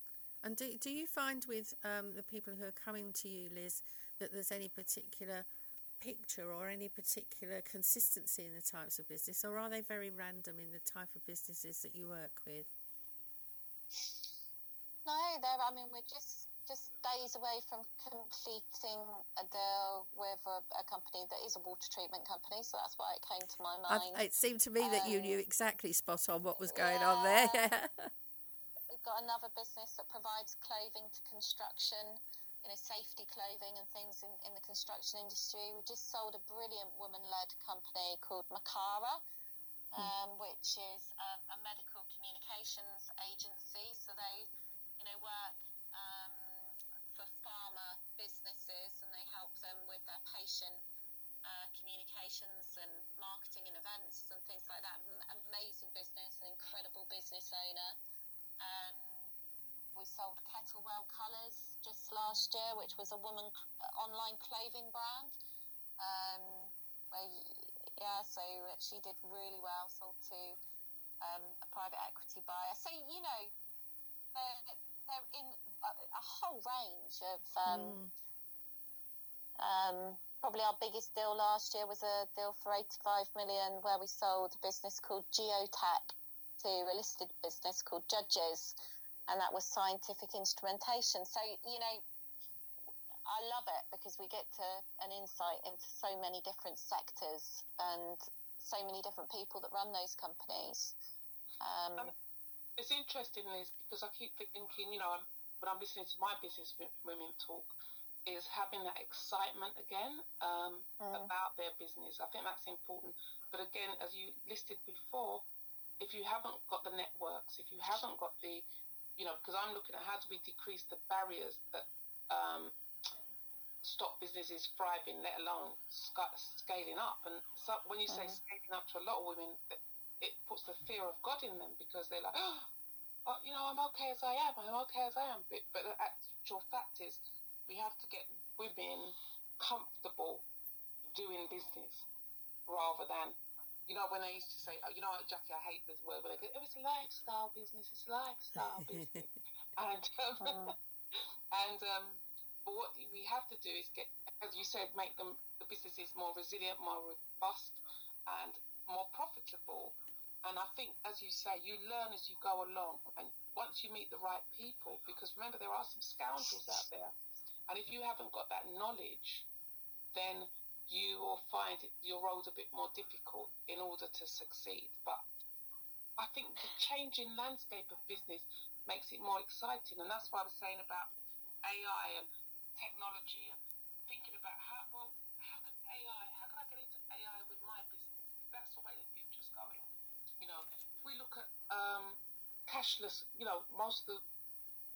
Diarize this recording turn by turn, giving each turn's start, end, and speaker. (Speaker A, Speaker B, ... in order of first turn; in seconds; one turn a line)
Speaker A: 0.4-5.5
Speaker A: 6.0-12.7
Speaker B: 15.1-24.2
Speaker A: 23.9-28.1
Speaker B: 24.8-25.4
Speaker B: 26.6-27.6
Speaker B: 28.9-39.2
Speaker B: 39.9-44.5
Speaker B: 45.0-50.8
Speaker B: 51.4-58.0
Speaker B: 58.6-59.2
Speaker B: 60.0-65.4
Speaker B: 66.0-70.6
Speaker B: 71.2-73.5
Speaker B: 74.3-78.0
Speaker A: 77.7-78.1
Speaker B: 79.6-88.8
Speaker B: 89.3-92.0
Speaker B: 93.3-101.0
Speaker B: 101.6-102.1
Speaker C: 102.8-107.8
Speaker C: 108.3-115.5
Speaker B: 111.0-111.3
Speaker C: 116.0-118.7
Speaker C: 119.2-122.8
Speaker C: 123.8-132.7
Speaker B: 128.1-128.4
Speaker C: 133.3-140.5
Speaker C: 141.1-142.1
Speaker C: 142.7-167.1
Speaker B: 150.4-150.7
Speaker C: 167.7-169.5
Speaker C: 170.1-175.2
Speaker C: 176.2-189.9
Speaker C: 190.4-194.2